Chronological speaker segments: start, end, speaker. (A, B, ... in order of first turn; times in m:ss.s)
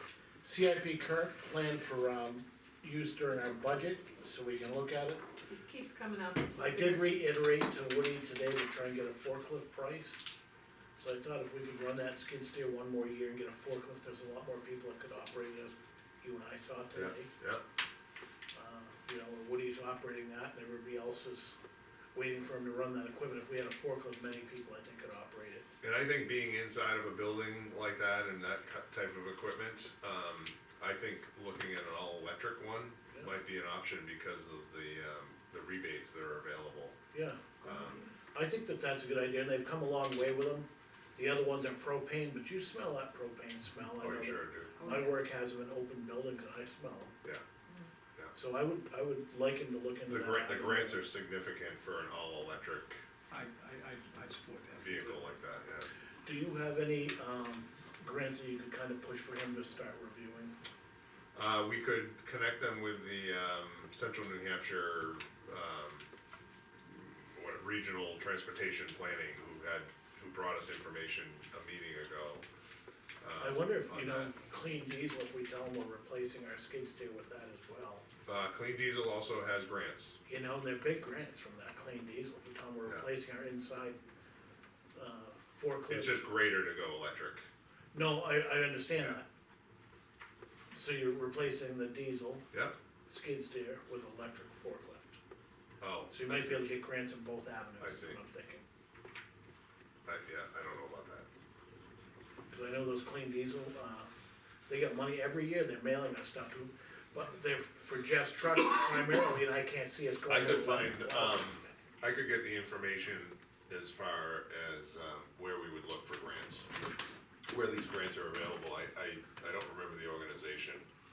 0:00.4-0:05.2 A
0:05.5-0:07.2 B
0:06.6-0:10.2 A
0:11.0-0:17.3 A
0:16.9-0:17.6 C
0:18.5-0:21.6 A
0:22.1-0:25.7 A
0:25.8-0:37.0 C
0:37.1-0:37.5 A
0:37.6-0:38.1 B
0:37.6-0:38.0 C
0:38.3-0:47.1 A
0:44.0-0:44.7 C
0:44.8-0:45.2 B
0:48.4-0:51.0 A
0:50.1-0:53.0 C
0:53.3-0:55.3 D
0:54.8-0:55.9 C
0:56.2-1:00.5 A
1:01.3-1:06.1 C
1:06.9-1:12.4 C
1:13.2-1:14.3 C
1:13.4-1:18.1 A
1:18.3-1:20.2 C
1:20.3-1:24.0 A
1:25.0-1:26.3 A
1:25.9-1:27.5 C
1:27.9-1:29.3 A
1:30.7-1:32.5 A
1:33.1-1:35.2 A
1:35.8-1:36.7 C
1:36.1-1:38.6 A
1:37.8-1:38.2 C
1:40.1-1:41.3 C
1:42.5-1:44.1 A
1:44.7-1:51.6 A
1:50.3-1:56.7 C
1:57.5-2:00.9 C